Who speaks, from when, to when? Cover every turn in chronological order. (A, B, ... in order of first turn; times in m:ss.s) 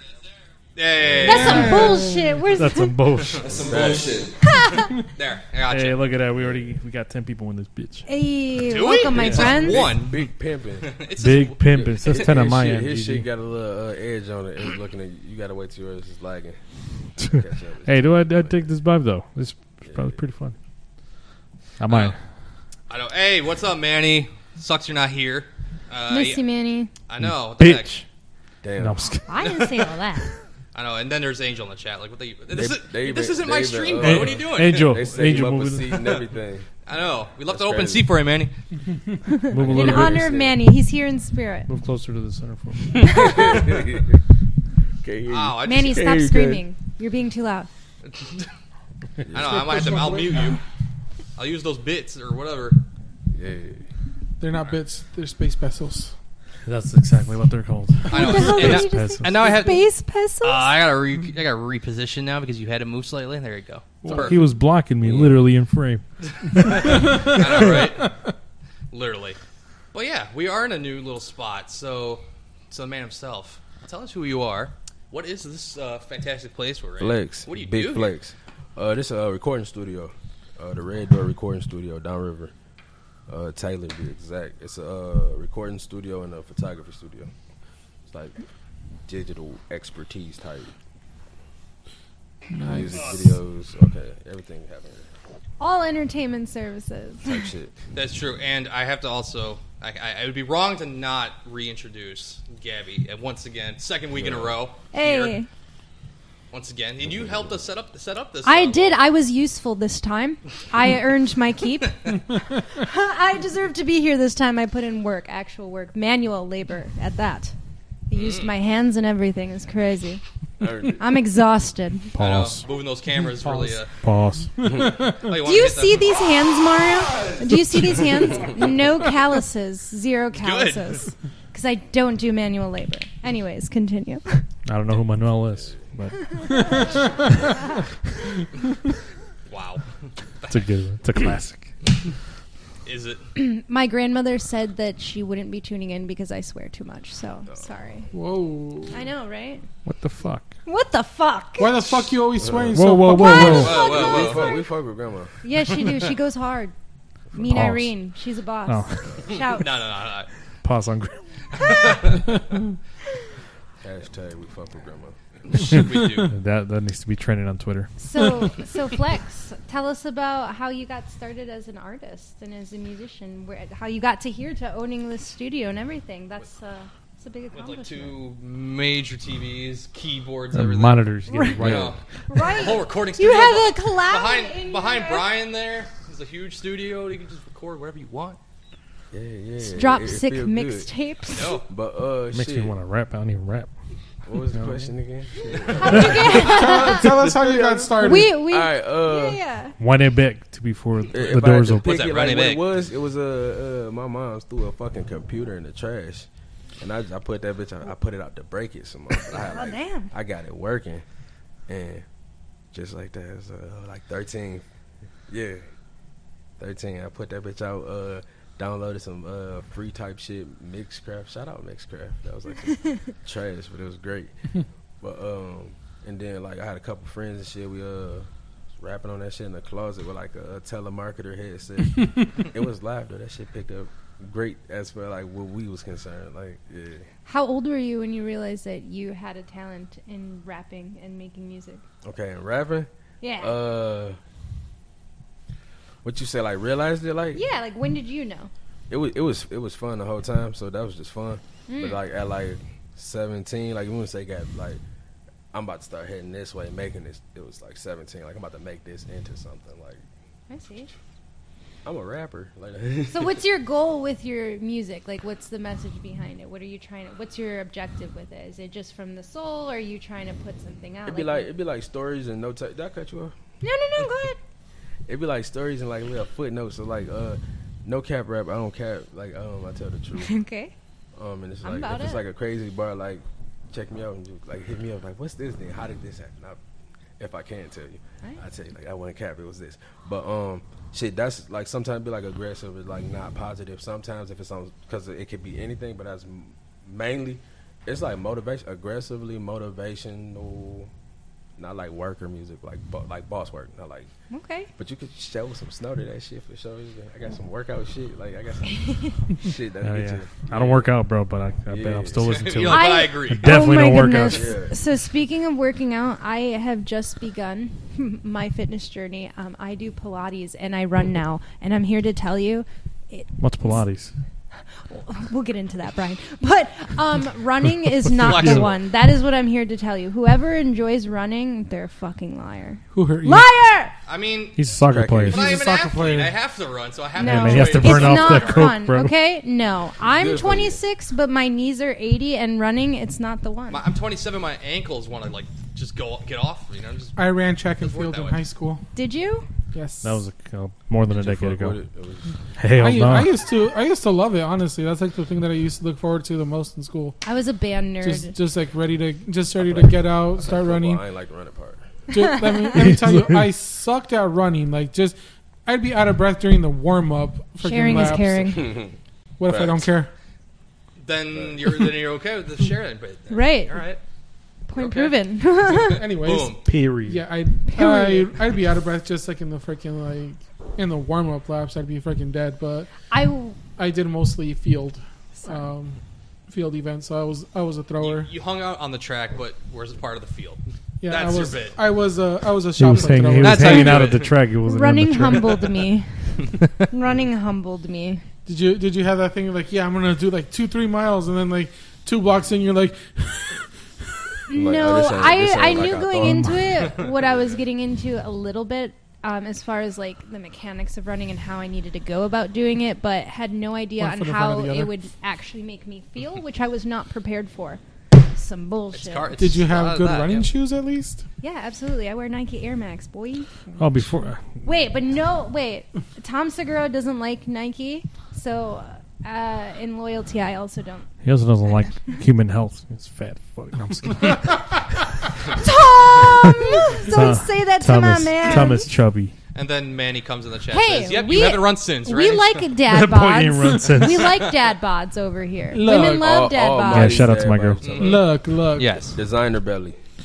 0:00.8-0:01.9 A
0:01.0-0:01.8 B
0:01.2-0:03.0 C
0:01.3-0:02.4 D
0:02.5-0:04.0 E
0:03.4-0:04.5 B
0:04.4-0:05.0 C
0:04.9-0:06.0 A
0:05.7-0:08.1 E
0:06.4-0:06.6 B
0:08.1-0:09.9 C
0:08.6-0:10.3 A
0:09.1-0:11.0 B
0:10.8-0:12.3 A
0:11.2-0:13.3 E
0:11.7-0:16.6 B
0:17.2-0:18.6 B
0:17.2-0:20.6 E
0:19.8-0:20.2 B
0:21.8-0:22.2 E
0:21.9-0:22.2 A
0:22.9-0:26.4 A
0:26.1-0:26.9 C
0:27.1-0:27.9 A
0:27.2-0:28.1 E
0:28.6-0:29.0 B
0:28.8-0:29.3 E
0:29.3-0:30.3 C
0:29.4-0:29.8 A
0:30.7-0:35.3 A
0:32.5-0:36.7 B
0:34.0-0:36.2 E
0:36.9-0:38.5 A
0:37.5-0:38.1 B
0:39.2-0:41.7 C
0:39.5-0:40.4 E
0:39.6-0:40.6 B
0:41.7-0:43.8 E
0:42.9-0:44.2 B
0:43.0-0:43.6 C
0:45.0-0:46.6 B
0:45.3-0:46.0 A
0:45.6-0:47.7 C
0:48.1-0:48.5 A
0:49.2-0:49.9 B
0:49.3-0:50.6 A
0:49.4-0:50.6 D
0:51.4-0:52.8 A
0:53.3-0:53.8 B
0:54.4-0:56.1 D
0:56.7-0:59.3 E
0:58.1-0:59.9 A
0:58.1-1:00.7 C
1:00.4-1:04.4 A
1:04.1-1:04.3 D
1:04.1-1:07.9 E
1:05.0-1:05.3 B
1:06.3-1:08.1 A
1:06.9-1:07.4 D
1:08.9-1:09.4 A
1:09.9-1:18.1 A
1:17.0-1:22.5 B
1:23.3-1:27.3 B
1:28.1-1:28.4 B
1:29.1-1:30.7 B
1:32.6-1:33.2 D
1:32.6-1:35.1 B
1:32.9-1:33.3 A
1:35.6-1:37.4 C
1:37.2-1:37.7 B
1:37.9-1:45.4 A
1:44.1-1:44.6 B
1:44.9-1:45.5 C
1:46.5-1:49.0 A
1:47.0-1:47.5 B
1:48.4-1:57.6 C
1:58.1-2:00.2 C
1:58.1-1:58.5 A
2:00.6-2:01.1 B
2:01.0-2:02.1 C
2:02.1-2:02.6 E
2:02.2-2:03.9 A
2:03.3-2:03.8 D
2:04.0-2:04.6 E
2:04.6-2:05.3 D
2:04.6-2:05.1 B
2:05.1-2:06.1 A
2:05.4-2:14.4 C
2:10.4-2:11.0 A
2:14.7-2:16.7 E
2:16.2-2:16.9 C
2:16.5-2:17.3 D
2:19.5-2:19.8 A
2:20.5-2:21.7 E
2:22.8-2:23.2 A
2:23.4-2:28.1 C
2:27.5-2:28.1 B
2:28.1-2:29.0 D
2:28.9-2:29.7 C
2:29.8-2:30.5 E
2:30.6-2:31.8 C
2:31.6-2:33.7 D
2:32.4-2:35.4 B
2:32.7-2:33.8 E
2:33.1-2:34.6 C
2:33.5-2:34.6 A
2:35.4-2:36.7 C
2:37.4-2:39.7 C
2:37.4-2:37.9 E
2:38.7-2:39.1 E
2:39.4-2:40.3 A
2:40.6-2:42.2 E
2:41.6-2:42.3 A
2:43.8-2:45.2 B
2:45.5-2:46.3 A
2:45.7-2:47.9 E
2:48.0-2:58.2 C
2:57.5-3:08.4 A
3:00.5-3:02.0 E
3:01.3-3:01.6 C
3:01.6-3:02.0 B
3:02.3-3:05.3 C
3:09.1-3:10.9 B
3:09.6-3:11.6 C
3:11.3-3:11.6 A
3:11.7-3:12.7 B
3:12.3-3:13.7 E
3:14.3-3:19.4 B
3:14.5-3:14.9 E
3:15.8-3:17.2 C
3:16.1-3:18.4 D
3:18.0-3:19.8 C
3:19.8-3:21.9 E
3:21.1-3:26.3 B
3:21.8-3:22.6 A
3:26.8-3:31.0 B
3:29.1-3:30.1 C
3:31.7-3:32.0 B
3:32.7-3:34.6 B
3:35.3-3:35.6 B
3:36.6-3:44.4 B
3:45.0-3:48.3 B
3:48.8-3:57.1 B
3:57.3-4:01.8 C
4:02.0-4:04.2 B
4:03.2-4:03.6 C
4:06.0-4:07.4 B
4:07.3-4:08.5 C
4:08.9-4:14.8 B
4:11.7-4:12.0 C
4:15.5-4:20.0 B
4:20.5-4:20.9 C
4:21.8-4:23.4 B
4:23.1-4:31.5 C
4:31.1-4:33.4 B
4:33.6-4:34.4 C
4:35.1-4:40.3 B
4:40.2-4:40.7 C
4:41.2-4:46.6 B
4:41.6-4:42.2 C
4:47.2-5:00.9 B
5:01.6-5:04.1 B
5:04.3-5:04.7 C
5:04.8-5:10.8 B
5:08.8-5:09.1 C
5:09.8-5:14.6 E
5:11.7-5:12.7 B
5:12.2-5:13.5 A
5:12.7-5:23.7 C
5:14.3-5:14.8 B
5:23.4-5:24.1 E
5:24.9-5:33.9 C
5:28.0-5:28.7 E
5:28.2-5:28.8 A
5:32.9-5:33.5 D
5:34.1-5:34.6 A
5:34.6-5:35.4 E
5:34.8-5:35.7 B
5:35.3-5:38.8 A
5:35.3-5:36.4 D
5:37.2-5:43.8 C
5:37.2-5:39.1 E
5:40.0-5:40.8 B
5:43.7-5:47.2 A
5:47.2-5:48.8 D
5:47.8-5:48.4 A
5:49.0-5:49.5 C
5:49.7-5:50.2 D
5:50.0-5:51.8 E
5:51.1-5:52.3 B
5:52.6-5:53.4 E
5:52.8-5:57.2 D
5:57.2-5:58.3 C
5:58.0-6:01.0 D
5:59.6-6:02.0 B
6:02.1-6:08.6 D
6:02.7-6:03.5 E
6:07.6-6:08.6 C
6:08.5-6:09.0 B
6:09.4-6:10.1 D
6:09.5-6:09.9 B
6:11.0-6:14.0 A
6:11.3-6:11.9 B
6:13.3-6:13.8 C
6:14.7-6:16.0 C
6:14.8-6:15.1 A
6:15.8-6:16.6 A
6:15.9-6:22.9 D
6:16.7-6:17.2 E
6:17.7-6:18.3 C
6:23.1-6:23.6 C
6:23.8-6:28.3 D
6:25.4-6:25.7 C
6:28.0-6:31.8 A
6:31.0-6:34.2 D
6:32.8-6:35.6 E
6:33.4-6:34.4 A
6:34.6-6:36.1 C
6:36.9-6:38.2 C
6:38.5-6:43.6 D
6:44.5-6:57.8 C
6:44.5-6:46.6 B
6:46.2-6:46.6 E
6:54.0-6:54.9 D
6:58.3-6:59.4 C
6:58.9-7:00.5 A
6:59.4-7:01.2 D
7:01.4-7:03.5 C
7:03.8-7:04.4 E
7:04.6-7:11.1 C
7:11.2-7:14.8 E
7:15.5-7:18.9 C
7:16.4-7:19.3 E
7:19.5-7:22.6 A
7:20.7-7:27.3 C
7:22.8-7:24.4 E
7:25.7-7:26.3 D
7:25.9-7:28.4 B
7:26.8-7:28.0 E
7:27.8-7:28.2 A
7:28.0-7:29.0 D
7:28.7-7:29.2 A
7:29.2-7:30.0 B